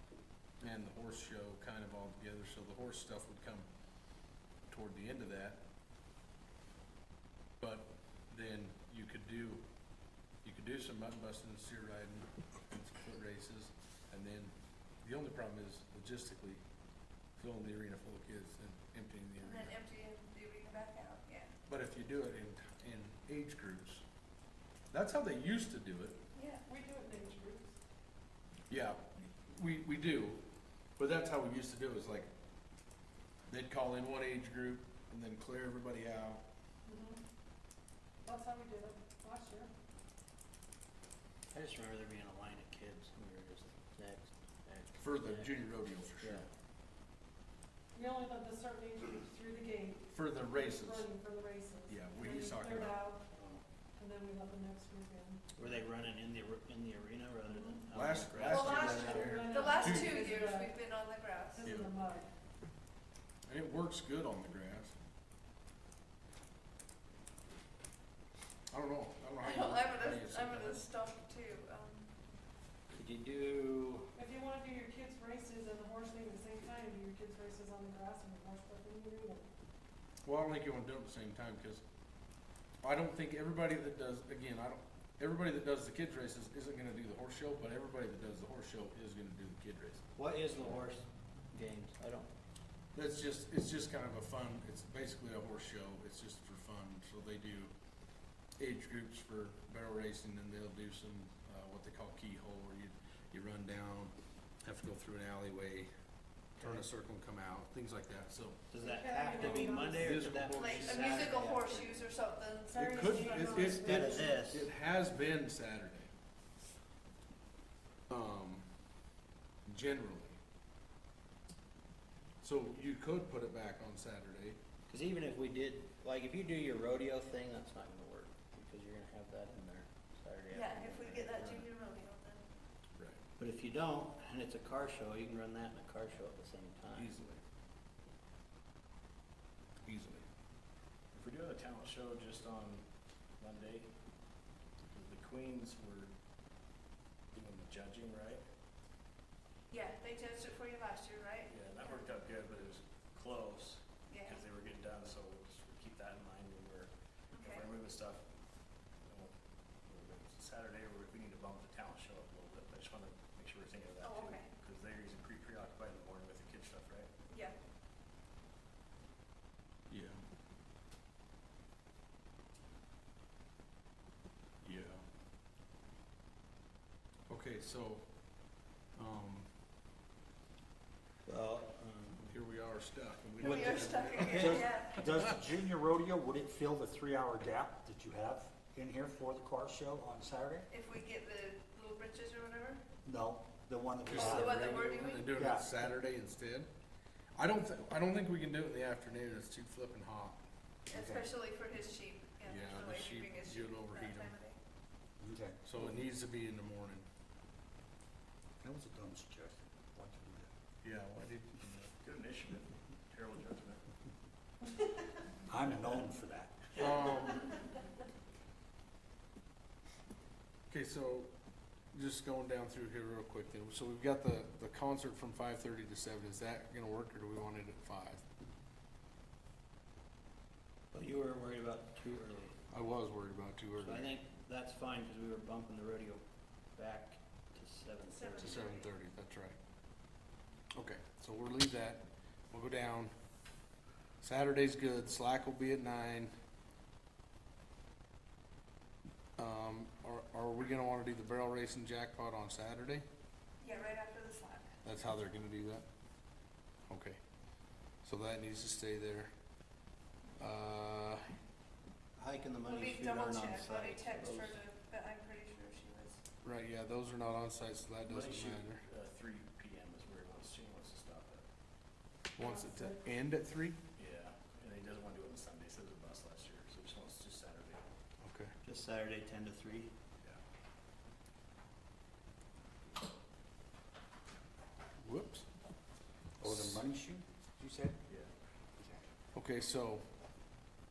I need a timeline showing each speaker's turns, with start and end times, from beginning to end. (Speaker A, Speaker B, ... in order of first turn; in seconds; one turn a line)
Speaker A: 0.6-3.6
Speaker A: 4.7-5.6
Speaker A: 7.6-9.6
Speaker A: 10.4-16.6
Speaker A: 17.4-19.8
Speaker B: 19.4-21.5
Speaker A: 21.7-24.0
Speaker A: 24.9-26.2
Speaker B: 26.3-26.6
Speaker C: 26.6-27.8
Speaker A: 28.7-30.4
Speaker A: 31.0-32.3
Speaker A: 33.5-36.4
Speaker C: 36.9-37.2
Speaker C: 38.2-39.7
Speaker D: 41.5-45.6
Speaker A: 45.0-46.5
Speaker D: 46.2-46.5
Speaker C: 47.9-53.2
Speaker A: 50.1-51.1
Speaker A: 51.9-53.0
Speaker B: 52.3-53.2
Speaker D: 53.3-53.6
Speaker C: 54.0-55.4
Speaker D: 55.5-59.5
Speaker C: 57.5-57.9
Speaker A: 57.9-60.2
Speaker B: 58.4-61.7
Speaker C: 58.8-60.7
Speaker C: 61.5-62.3
Speaker A: 61.6-61.9
Speaker A: 63.5-65.0
Speaker A: 68.7-70.8
Speaker B: 69.4-72.1
Speaker D: 72.9-74.1
Speaker C: 74.1-79.5
Speaker A: 80.2-81.8
Speaker A: 82.8-90.0
Speaker D: 90.1-92.3
Speaker A: 92.9-97.7
Speaker A: 98.6-105.9
Speaker A: 106.6-108.6
Speaker D: 108.7-112.1
Speaker C: 108.7-110.2
Speaker A: 109.3-111.4
Speaker B: 110.5-113.5
Speaker C: 112.7-114.3
Speaker A: 112.7-116.1
Speaker D: 113.5-114.7
Speaker A: 118.1-118.7
Speaker A: 119.7-120.4
Speaker A: 122.4-124.6
Speaker D: 124.9-131.4
Speaker B: 130.5-132.7
Speaker A: 131.3-131.7
Speaker A: 132.9-133.2
Speaker D: 133.4-137.1
Speaker A: 136.9-137.4
Speaker A: 139.8-140.2
Speaker E: 141.1-142.8
Speaker E: 143.4-143.9
Speaker E: 144.9-146.1
Speaker E: 147.3-148.4
Speaker B: 149.7-152.0
Speaker E: 151.5-158.2
Speaker B: 154.1-154.4
Speaker B: 157.3-157.7
Speaker E: 159.1-159.3
Speaker E: 159.8-167.1
Speaker B: 164.0-164.5
Speaker B: 167.3-167.5
Speaker A: 169.9-170.2
Speaker A: 174.6-175.0
Speaker A: 177.3-178.0
Speaker A: 178.9-179.5
Speaker D: 181.2-182.4
Speaker A: 182.3-185.1
Speaker B: 183.4-185.2
Speaker F: 183.4-190.7
Speaker D: 184.2-184.6
Speaker B: 190.7-192.8
Speaker F: 193.0-194.6
Speaker A: 194.1-196.7
Speaker B: 194.1-195.3
Speaker F: 195.3-195.8
Speaker A: 197.3-200.4
Speaker B: 200.9-204.6
Speaker F: 200.9-201.3
Speaker A: 202.4-204.3
Speaker F: 205.2-205.8
Speaker A: 205.6-207.1
Speaker F: 208.6-210.5
Speaker A: 210.8-211.9
Speaker E: 212.0-213.8
Speaker F: 215.5-216.8
Speaker A: 216.7-217.5
Speaker A: 220.7-221.3
Speaker A: 221.9-228.2
Speaker D: 230.9-232.6
Speaker A: 232.7-234.1
Speaker D: 233.8-236.2
Speaker D: 236.7-238.7
Speaker B: 238.1-238.9
Speaker A: 238.4-239.6
Speaker A: 240.7-243.1
Speaker A: 244.2-246.3
Speaker A: 249.4-253.0
Speaker B: 253.6-254.7
Speaker A: 254.8-255.8
Speaker A: 256.9-257.2
Speaker A: 258.0-259.3
Speaker A: 260.4-261.3
Speaker D: 262.1-264.6
Speaker B: 262.6-266.2
Speaker A: 266.4-268.8
Speaker E: 268.1-271.4
Speaker A: 272.3-273.8
Speaker C: 272.4-273.0
Speaker E: 273.9-277.9
Speaker A: 278.2-278.5
Speaker D: 278.6-279.9
Speaker A: 285.0-285.5
Speaker F: 286.4-288.0
Speaker A: 286.4-286.8
Speaker F: 288.8-289.0
Speaker A: 289.3-290.0